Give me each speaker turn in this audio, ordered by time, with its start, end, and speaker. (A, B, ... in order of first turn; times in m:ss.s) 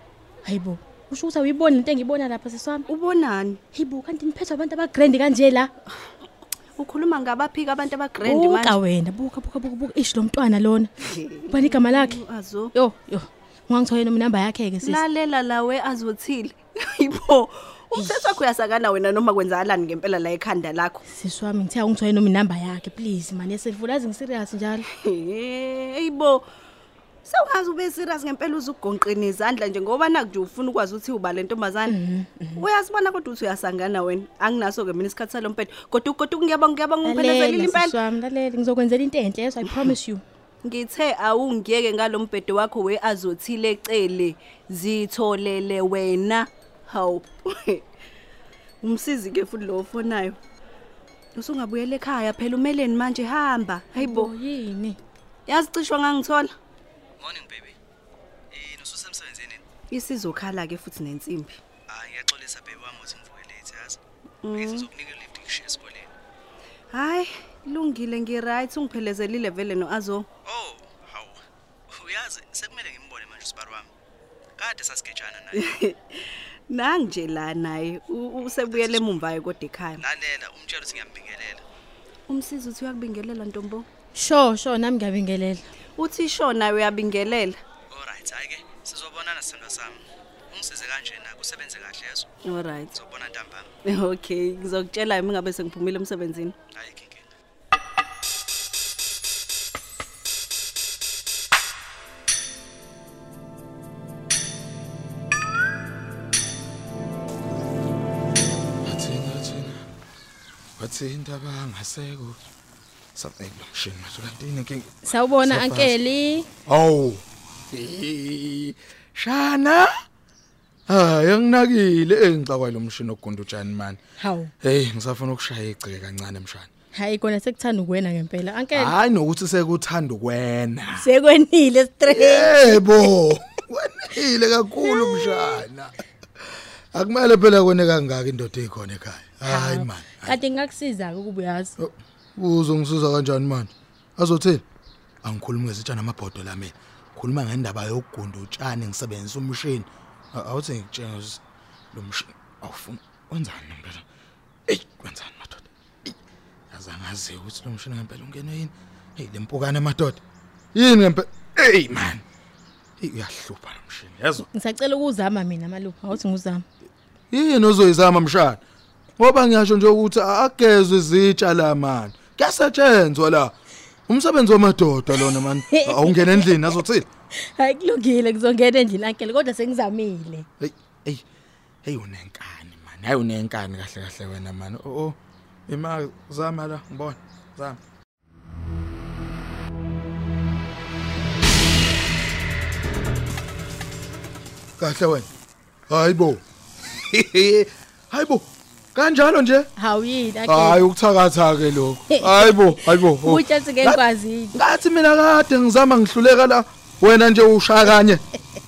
0:00.4-0:02.9 A
0:02.9-0:03.6 B
0:03.7-0:05.7 A
0:06.8-0:08.8 B
0:08.2-0:10.9 A
0:11.1-0:12.7 B
0:11.5-0:12.2 A
0:12.7-0:15.0 A
0:14.8-0:21.0 B
0:17.9-0:18.4 A
0:21.1-0:24.9 A
0:25.0-0:26.4 B
0:27.2-0:31.9 B
0:31.9-0:32.6 A
0:32.6-0:37.9 B
0:37.0-0:40.2 A
0:40.6-0:47.8 B
0:48.8-0:50.4 B
0:51.4-0:54.3 B
0:53.9-0:55.0 A
0:55.5-0:56.5 B
0:57.2-0:57.8 C
0:58.5-0:59.6 C
0:59.9-1:01.6 B
1:01.9-1:04.0 C
1:04.4-1:04.9 B
1:04.6-1:06.1 C
1:06.9-1:10.2 B
1:10.4-1:13.9 C
1:14.6-1:15.5 C
1:15.5-1:15.9 B
1:16.7-1:20.0 B
1:18.7-1:19.0 C
1:20.0-1:21.6 C
1:22.3-1:23.8 B
1:24.2-1:25.6 A
1:26.0-1:27.5 B
1:27.9-1:32.3 C
1:32.4-1:33.0 B
1:32.9-1:33.7 C
1:33.9-1:36.5 B
1:36.7-1:37.3 C
1:48.8-1:49.9 D
1:50.8-1:52.4 D
1:53.2-1:56.0 D
1:55.0-1:56.5 A
1:56.7-1:59.9 D
2:00.9-2:04.0 D
2:04.2-2:04.5 A
2:04.6-2:06.7 D
2:06.9-2:08.9 A
2:08.7-2:11.1 D
2:11.0-2:12.8 A
2:12.1-2:15.9 D
2:14.9-2:15.6 A
2:16.9-2:20.4 D
2:19.4-2:21.7 A
2:21.8-2:24.6 D
2:25.2-2:31.4 D
2:31.9-2:34.0 D
2:34.7-2:36.1 D
2:36.7-2:40.2 D
2:40.7-2:42.2 D
2:43.0-2:44.4 D
2:44.5-2:46.6 A
2:47.3-2:48.6 D
2:49.2-2:53.5 D
2:54.1-2:57.1 D
2:55.2-2:56.8 A
2:57.4-3:00.5 A
3:00.6-3:01.2 D
3:01.8-3:05.2 D
3:05.7-3:07.8 D
3:14.8-3:15.3 D
3:15.9-3:19.7 D
3:19.8-3:20.9 A
3:20.4-3:24.0 D
3:22.1-3:24.6 A
3:24.5-3:28.2 D